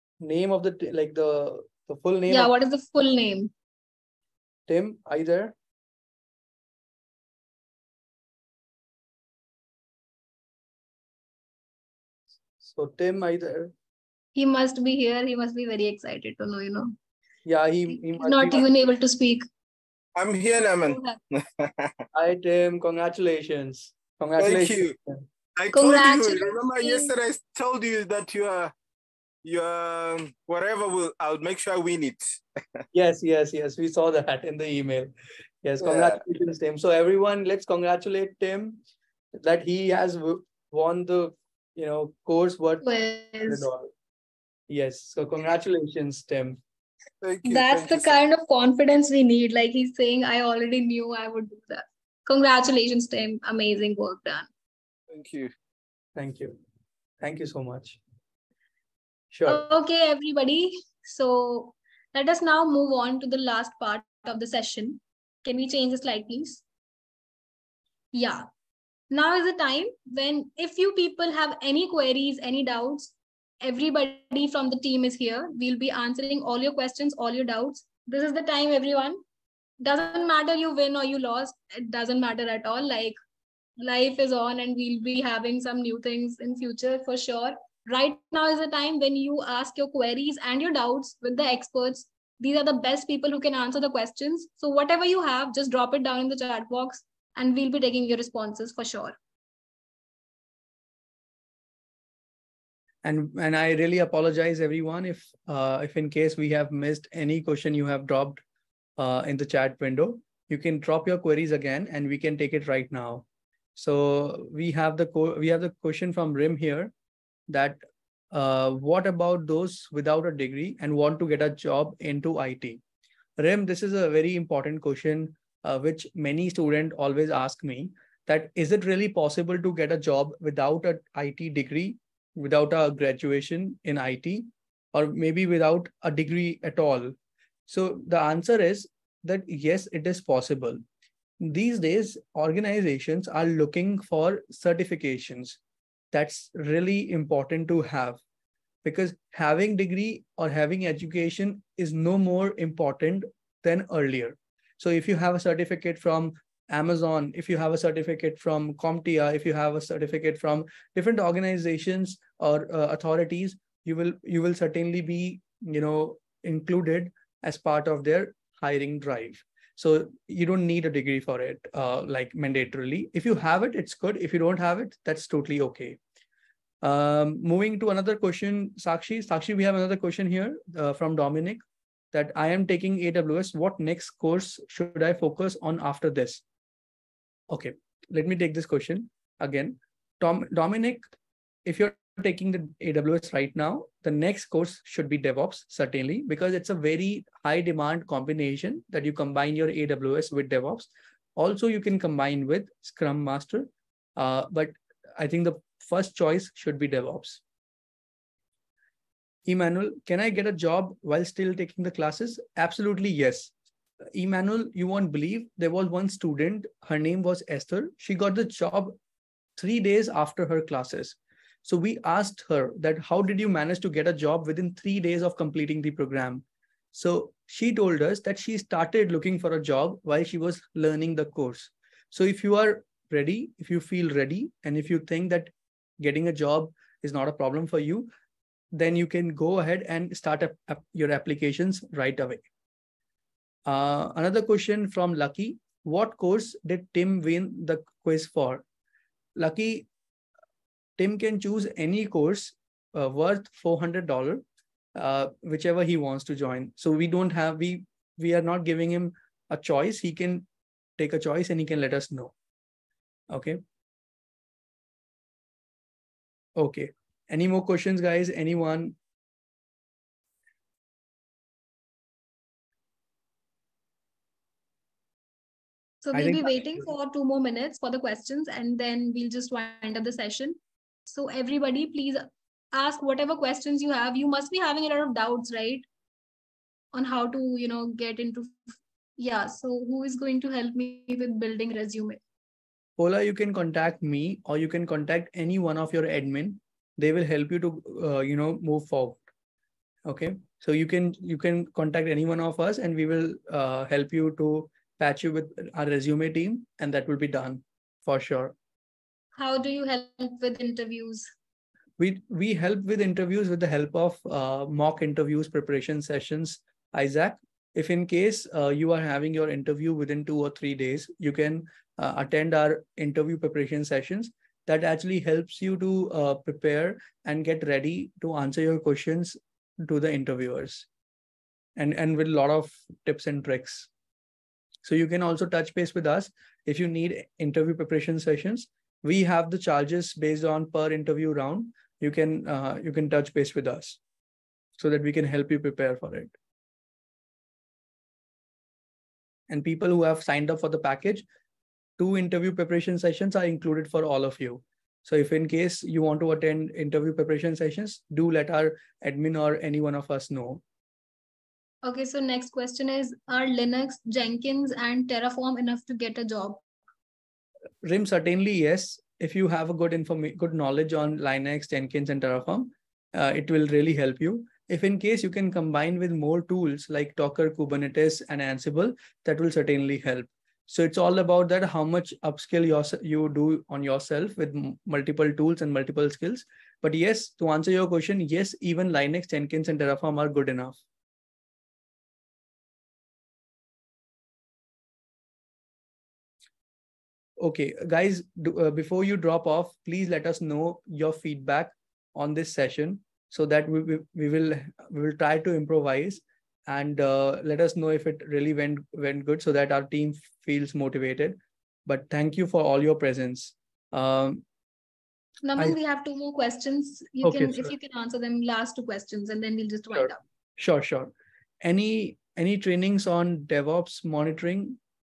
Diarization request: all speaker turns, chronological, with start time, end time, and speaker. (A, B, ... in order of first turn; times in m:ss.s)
0:00.2-0:02.5 A
0:02.3-0:03.5 B
0:04.7-0:05.5 A
0:12.6-0:13.7 A
0:14.4-0:17.0 B
0:17.4-0:18.7 A
0:18.1-0:19.4 B
0:20.2-0:22.0 C
0:20.8-0:21.2 B
0:22.1-0:25.2 A
0:24.4-0:25.0 C
0:25.6-0:28.7 C
0:25.7-0:27.1 B
0:29.4-0:32.8 C
0:32.9-0:35.1 A
0:35.6-0:38.8 A
0:35.8-0:36.2 C
0:39.4-0:42.8 A
0:42.8-0:43.7 B
0:43.5-0:43.9 A
0:44.7-0:46.6 A
0:47.2-0:48.2 C
0:47.4-0:54.5 B
0:55.1-0:55.5 C
0:56.2-0:56.6 A
0:57.2-0:58.0 A
0:59.3-0:59.6 A
0:59.5-1:06.6 B
1:08.1-1:08.4 B
1:09.1-1:19.2 B
1:19.8-1:23.2 B
1:23.8-1:39.2 B
1:43.0-1:48.4 A
1:49.0-1:56.9 A
1:57.5-1:57.8 A
1:58.3-2:02.8 A
2:03.4-2:17.2 A
2:17.7-2:20.8 A
2:21.4-2:25.6 A
2:26.1-2:28.2 A
2:28.8-2:56.0 A
2:56.8-3:06.4 A
3:07.5-3:11.1 A
3:11.6-3:27.4 A
3:29.5-3:33.5 A
3:34.1-3:39.0 A
3:39.6-3:58.1 A
3:58.7-4:02.4 A
4:03.7-4:08.6 A
4:09.4-4:09.9 A
4:11.0-4:14.4 A
4:15.0-4:20.5 A
4:21.0-4:22.3 A
4:23.3-4:23.6 A
4:26.6-4:29.0 A
4:36.0-4:45.8 B
4:36.1-4:36.9 A
4:46.9-4:52.2 B
4:53.0-4:59.2 A
5:00.0-5:08.6 A
5:09.4-5:11.3 B
5:12.0-5:30.9 A
5:31.8-5:33.9 A
5:34.8-5:44.0 A
5:44.8-5:46.3 A
5:49.5-5:51.2 A
5:52.0-6:00.6 A
6:01.8-6:06.6 B
6:07.8-6:30.8 A
6:37.4-6:54.4 A
6:55.4-7:00.2 B
6:57.2-6:57.7 A
6:59.9-7:04.8 A